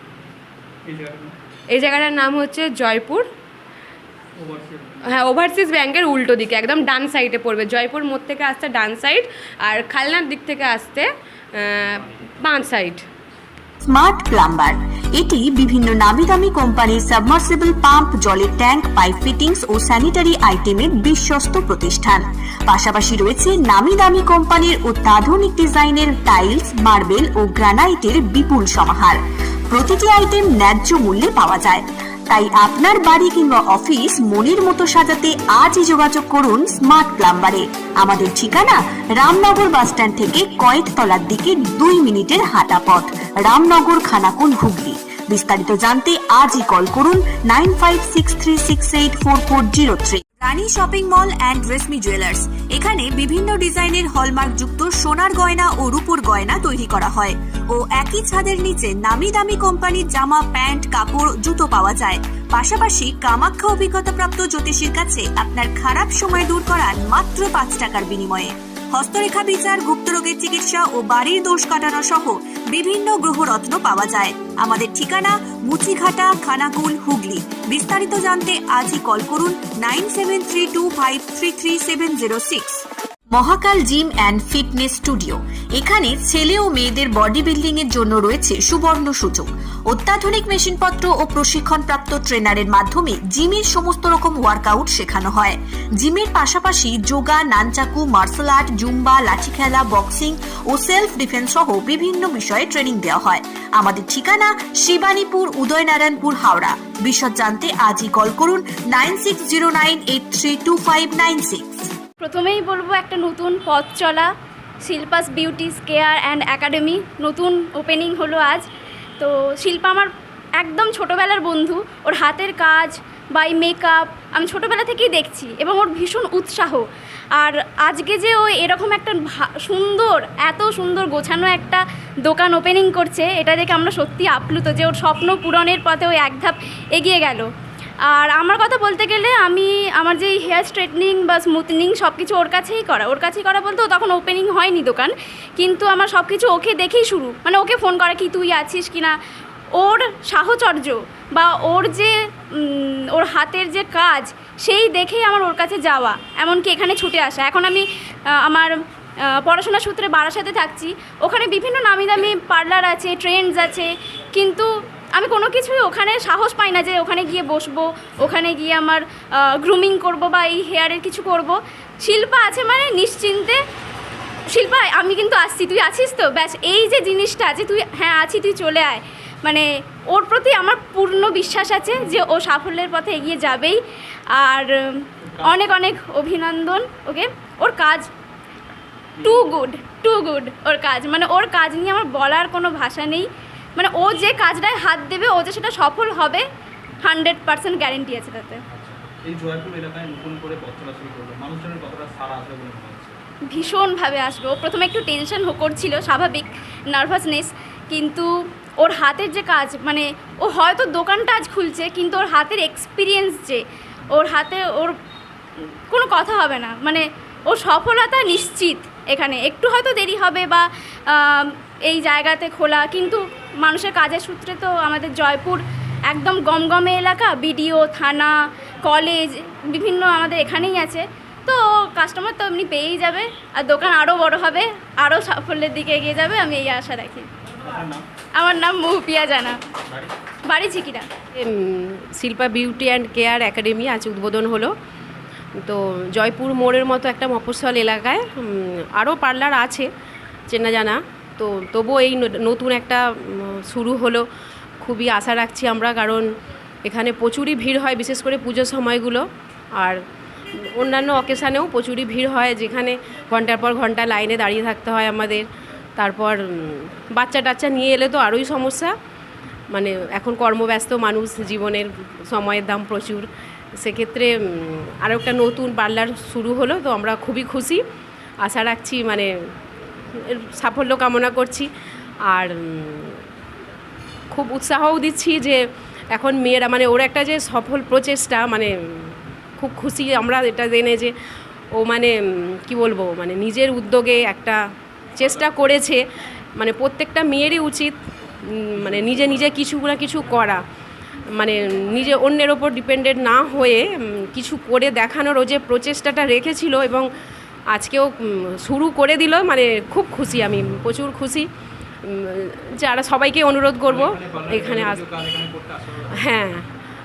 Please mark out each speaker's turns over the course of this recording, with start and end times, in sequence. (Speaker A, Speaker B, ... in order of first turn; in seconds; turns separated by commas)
Speaker A: 0.8-1.4, Speaker B: 1.7-3.3, Speaker A: 4.4-5.2, Speaker B: 5.0-13.0, Speaker A: 11.8-12.3, Speaker C: 13.8-111.9, Speaker D: 112.2-114.3, Speaker D: 114.8-118.6, Speaker D: 119.2-126.8, Speaker D: 127.4-137.5, Speaker D: 138.1-149.2, Speaker D: 149.8-157.8, Speaker D: 158.4-158.7, Speaker D: 159.3-173.6, Speaker D: 174.5-183.8, Speaker D: 184.3-188.1, Speaker A: 185.2-185.6, Speaker A: 189.2-189.5, Speaker D: 189.2-196.4, Speaker D: 197.0-198.6, Speaker A: 198.7-203.2, Speaker D: 203.5-208.3, Speaker D: 208.8-214.9, Speaker D: 215.9-237.3, Speaker A: 237.6-238.0, Speaker D: 238.4-239.6, Speaker A: 239.9-240.1, Speaker D: 240.5-241.1, Speaker E: 241.3-244.7, Speaker E: 245.6-249.9, Speaker E: 250.5-254.2, Speaker E: 254.8-256.3, Speaker E: 256.8-260.0, Speaker E: 260.6-268.9, Speaker E: 269.7-277.8, Speaker E: 278.4-279.3, Speaker E: 280.2-281.7, Speaker E: 282.3-283.2, Speaker E: 284.3-291.1, Speaker E: 291.7-294.6, Speaker E: 295.2-296.0, Speaker A: 295.2-295.7, Speaker E: 296.6-300.6, Speaker A: 298.8-299.5, Speaker E: 301.3-307.1, Speaker E: 307.7-311.5, Speaker E: 312.0-315.0, Speaker A: 313.8-316.4, Speaker E: 316.1-316.7